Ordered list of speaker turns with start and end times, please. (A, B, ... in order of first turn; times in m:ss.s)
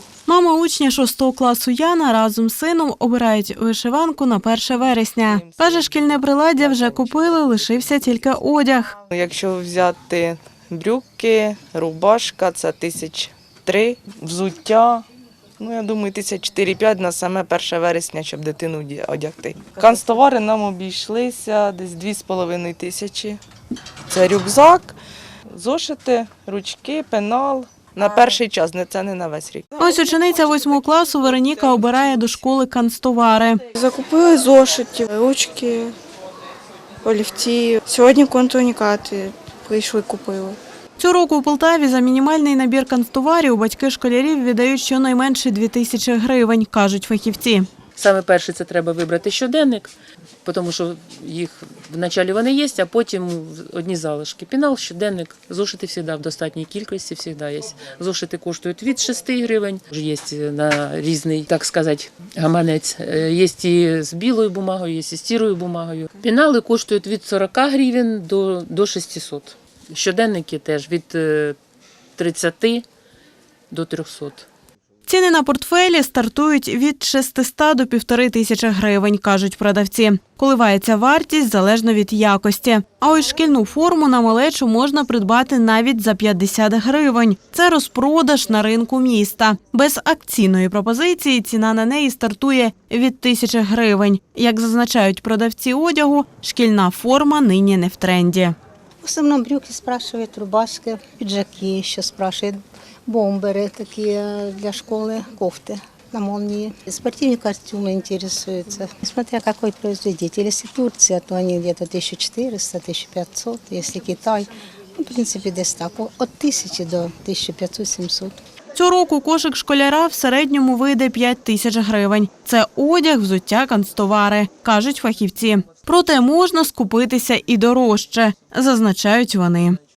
0:00.2-0:09.0 A
0:05.2-0:08.3 B
0:09.0-0:15.0 B
0:15.6-0:23.4 B
0:24.1-0:32.4 B
0:29.8-0:33.6 A
0:33.7-0:35.9 C
0:37.0-0:40.6 C
0:41.0-0:47.7 A
0:48.0-0:49.9 D
0:50.4-1:11.6 D
1:12.2-1:12.9 D
1:13.7-1:14.5 D
1:15.1-1:38.6 A
1:39.0-1:58.4 E
1:58.7-2:09.8 A